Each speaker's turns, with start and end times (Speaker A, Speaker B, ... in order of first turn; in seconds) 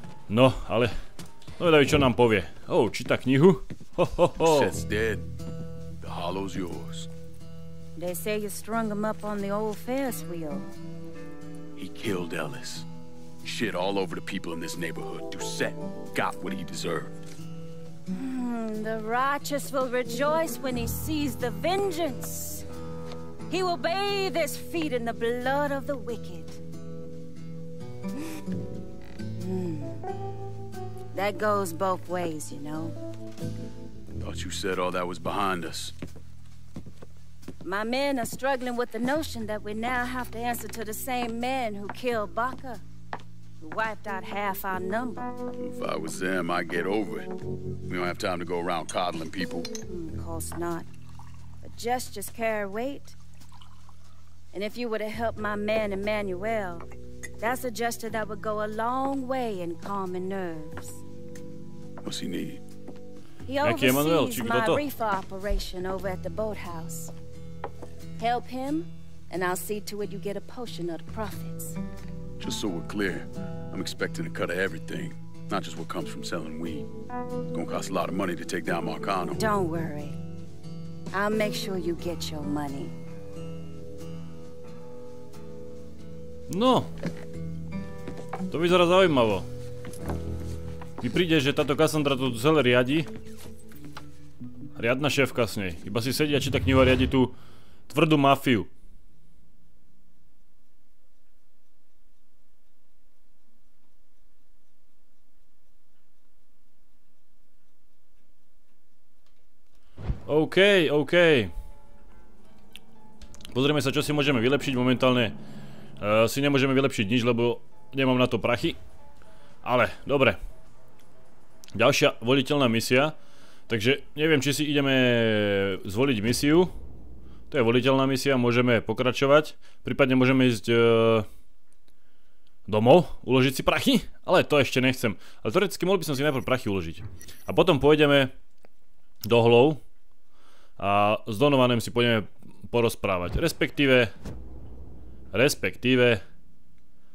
Speaker A: 0.3-0.9, 1.6-4.8, 63.6-64.8, 86.5-86.9, 88.5-89.5, 91.0-93.1, 94.8-97.4, 97.9-98.7, 110.3-111.5, 113.5-115.4, 116.0-118.8, 119.6-120.4, 121.8-123.2, 123.7-126.7, 127.5-131.3, 132.7-138.3, 139.3-139.8, 140.8-144.1, 145.3-146.2
Speaker B: 4.4-5.3, 6.0-7.1, 11.8-12.9, 13.4-17.2, 34.2-35.9, 45.6-47.3, 47.9-49.7, 62.0-62.6, 72.4-76.9, 77.5-79.4
Speaker C: 8.0-10.7, 18.1-22.7, 23.5-26.6, 29.4-30.0, 31.1-32.9, 37.6-42.8, 43.6-45.3, 49.9-50.9, 51.6-53.2, 54.5-56.9, 57.4-61.0, 63.5-67.1, 68.2-71.8, 79.4-80.2, 81.1-82.9